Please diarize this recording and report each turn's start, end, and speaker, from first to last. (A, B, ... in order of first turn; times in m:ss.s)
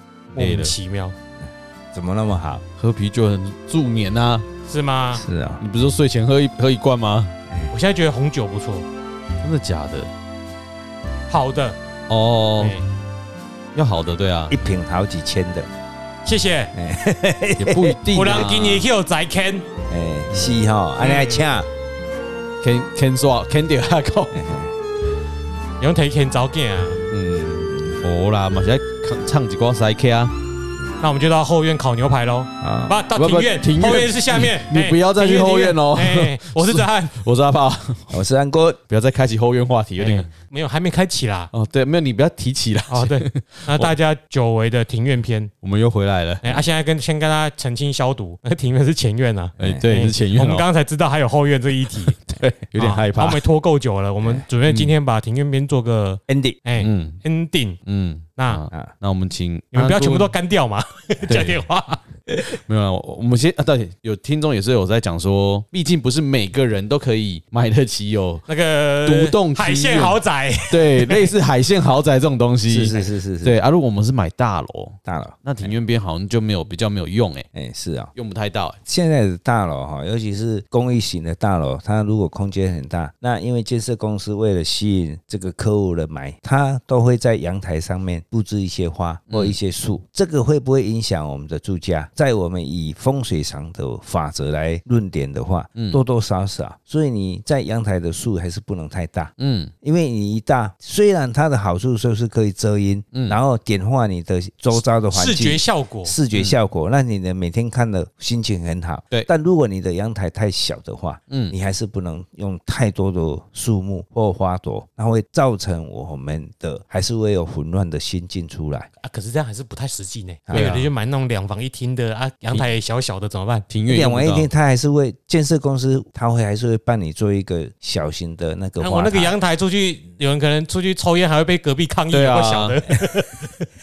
0:00.3-0:00.7 A
0:00.3-0:01.1 B
0:01.9-0:02.6 C
0:02.8-0:04.4 A
0:04.7-0:05.2 B
0:05.2-0:05.6 C
0:05.6-0:07.3 A
0:07.7-0:08.8 B
0:09.4-0:10.1 A
0:11.3-0:11.8 B
0:12.1-0:12.7 A
0:12.6-0:12.8 B
0:13.7-0:14.5 A
0:14.5-0:15.7 C
0:16.2-0:16.7 B
0:16.7-0:18.4 C
0:17.6-0:18.8 A
0:18.1-0:19.7 B
0:19.9-0:21.7 C
0:21.0-0:21.5 B
0:22.6-0:24.4 A
0:24.3-0:24.7 C
0:25.8-0:27.0 B
0:27.1-0:30.4 A
0:27.7-0:28.0 C
0:31.0-0:37.2 B
0:32.6-0:33.0 C
0:33.2-0:38.2 A
0:38.1-0:38.8 C
0:38.9-0:40.3 A
0:40.0-0:41.5 B
0:41.5-0:43.9 A
0:42.9-0:45.5 B
0:45.6-0:46.6 A
0:46.4-0:52.2 B
0:49.6-0:50.7 A
0:52.1-0:53.4 A
0:52.8-0:57.8 B
0:54.7-0:54.9 A
0:56.3-0:56.6 C
0:56.8-0:57.2 A
0:57.8-1:00.3 A
0:58.4-0:58.6 B
0:59.7-1:02.1 B
1:01.3-1:01.6 A
1:02.7-1:08.4 A
1:08.5-1:11.3 B
1:09.0-1:17.4 A
1:12.7-1:13.6 C
1:15.0-1:15.7 C
1:17.5-1:18.1 C
1:18.1-1:18.8 A
1:18.8-1:58.9 C
1:29.3-1:29.6 A
1:35.7-1:36.0 A
1:39.4-1:39.7 A
1:45.1-1:46.1 B
1:46.3-1:46.6 A
1:51.3-1:51.5 A
1:59.0-2:03.6 B
2:00.5-2:00.7 C
2:00.5-2:00.9 A
2:03.7-2:04.5 A
2:03.9-2:09.3 C
2:08.8-2:13.6 B
2:12.1-2:12.8 A